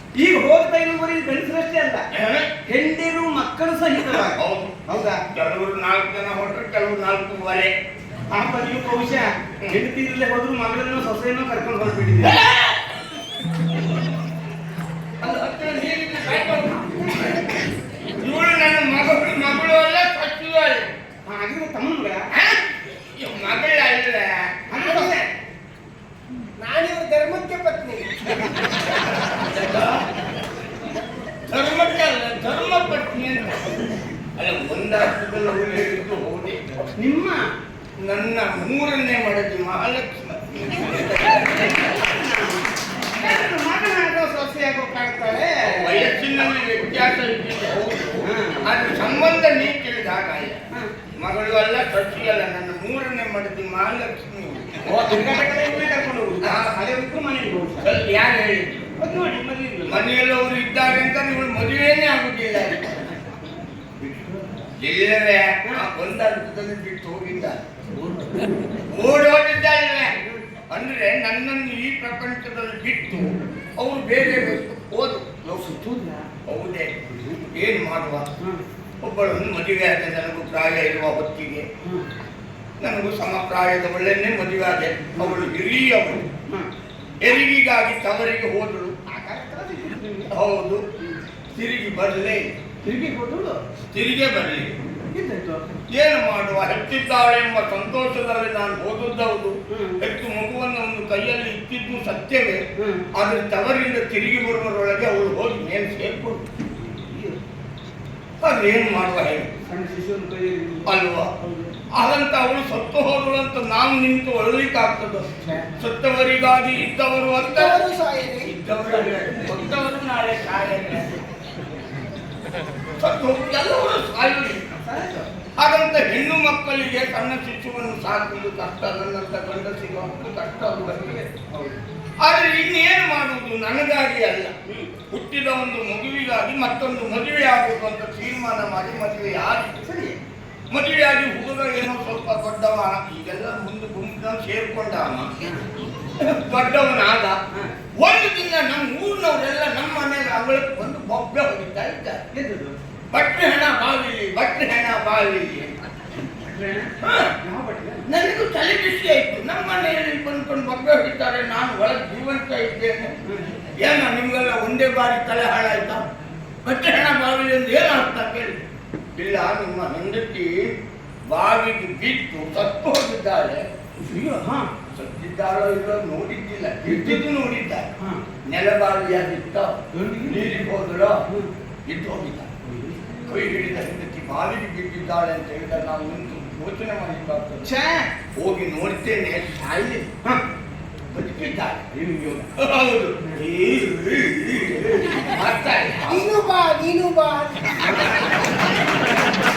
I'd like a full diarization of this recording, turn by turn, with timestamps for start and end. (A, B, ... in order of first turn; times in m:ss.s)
0:00.2-0:02.1 A
0:02.1-0:02.5 B
0:02.7-0:05.2 A
0:04.2-0:04.8 B
0:05.3-0:07.7 B
0:08.3-0:12.4 A
0:12.2-0:12.8 B
0:15.2-0:17.4 B
0:18.2-0:20.9 B
0:21.3-0:22.3 A
0:22.3-0:24.5 B
0:24.7-0:25.3 A
0:24.7-0:25.1 C
0:26.6-0:28.1 C
0:29.4-0:30.0 B
0:31.5-0:33.6 B
0:34.4-0:36.9 B
0:37.0-0:37.4 A
0:38.0-0:41.7 B
0:41.5-0:46.3 A
0:45.6-0:50.6 B
0:48.2-0:48.7 A
0:51.2-0:55.3 B
0:54.8-0:57.9 A
0:56.4-0:56.7 B
0:57.8-0:58.7 B
0:59.0-1:00.1 A
0:59.9-1:03.2 B
1:04.0-1:04.6 A
1:04.8-1:07.6 B
1:07.9-1:08.4 A
1:08.9-1:10.1 B
1:10.7-1:15.8 B
1:15.5-1:16.3 A
1:16.5-1:16.9 B
1:17.1-1:17.4 A
1:17.5-1:18.2 B
1:19.0-1:21.7 B
1:22.8-1:26.2 B
1:27.2-1:29.0 B
1:29.1-1:30.3 A
1:30.3-1:30.8 B
1:31.5-1:32.5 B
1:32.8-1:33.6 A
1:33.9-1:34.7 B
1:35.1-1:35.6 A
1:35.9-1:42.6 B
1:39.7-1:40.0 A
1:42.8-1:43.0 A
1:43.1-1:46.4 B
1:46.7-1:47.4 A
1:48.4-1:49.5 B
1:49.6-1:51.7 A
1:50.9-1:51.3 B
1:52.0-1:57.8 B
1:55.4-1:55.7 A
1:57.4-1:58.5 C
1:58.4-2:01.1 B
2:03.0-2:04.7 B
2:04.8-2:05.3 A
2:05.6-2:11.3 B
2:11.5-2:11.8 A
2:12.2-2:14.5 B
2:15.1-2:19.8 B
2:19.8-2:20.2 A
2:20.7-2:25.3 B
2:26.2-2:27.4 B
2:28.0-2:32.2 B
2:32.3-2:32.8 A
2:33.1-2:35.8 B
2:36.4-2:38.1 A
2:37.0-2:37.3 B
2:38.1-2:43.2 B
2:43.8-2:46.0 B
2:46.6-2:48.6 B
2:49.2-2:50.7 B
2:51.3-2:53.7 B
2:54.0-2:54.7 A
2:54.9-2:57.9 B
2:56.8-2:57.2 A
2:58.5-3:01.2 B
2:59.9-3:00.5 A
3:01.8-3:02.5 B
3:02.6-3:03.0 A
3:03.2-3:07.7 B
3:07.6-3:08.1 A
3:08.4-3:10.1 B
3:11.1-3:11.9 B
3:11.9-3:12.5 A
3:12.5-3:16.3 B
3:16.1-3:17.6 C
3:17.9-3:18.2 A